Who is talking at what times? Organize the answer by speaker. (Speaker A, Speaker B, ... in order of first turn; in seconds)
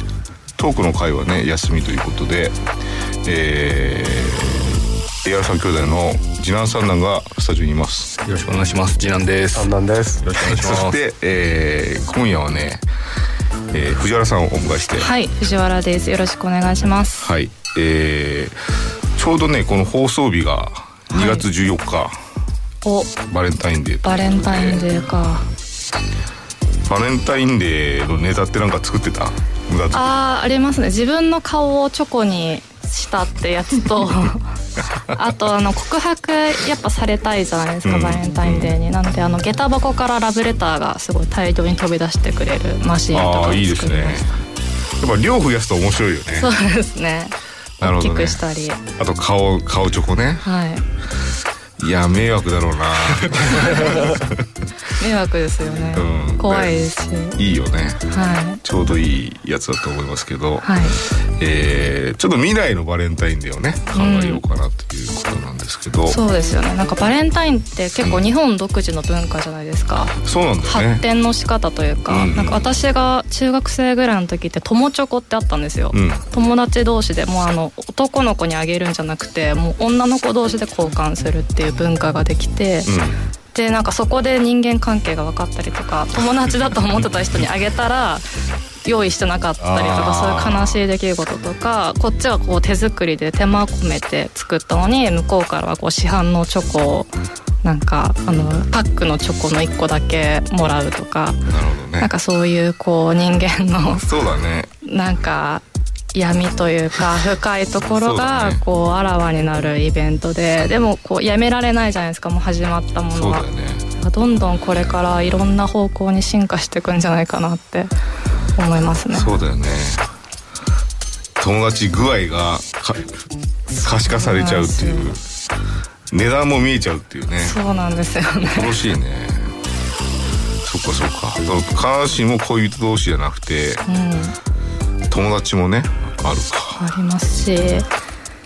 Speaker A: 0.6-2.6, 3.2-8.2, 10.4-12.8, 13.7-15.1, 17.2-18.6, 19.1-22.1, 23.3-24.8, 26.9-30.0, 37.8-38.7, 43.1-44.3, 45.0-46.5, 47.8-48.4, 49.0-50.5, 51.8-54.4, 55.9-56.8, 57.4-58.0, 58.6-66.2, 70.2-71.0, 72.1-72.6, 75.9-76.2, 82.8-83.2, 89.6-90.8, 101.5-102.1, 103.9-104.7, 108.0-108.6, 113.1-113.8, 119.1-120.0, 121.4-123.0, 123.7-125.2, 126.1-127.6, 128.4-129.5, 130.6-133.8, 135.1-136.8
Speaker B: 8.2-11.0
Speaker C: 14.9-17.3, 21.1-21.4, 22.8-23.1, 24.0-25.5, 29.9-44.2, 46.4-48.8, 50.4-50.9, 53.5-54.2, 54.9-57.4, 58.1-58.6, 60.6-61.0, 63.9-64.4, 66.0-82.9, 83.5-88.2, 88.8-101.4, 102.0-104.0, 104.8-105.6, 106.1-117.9, 118.5-119.3, 124.1-125.1, 127.4-128.8, 133.8-134.3, 136.7-137.9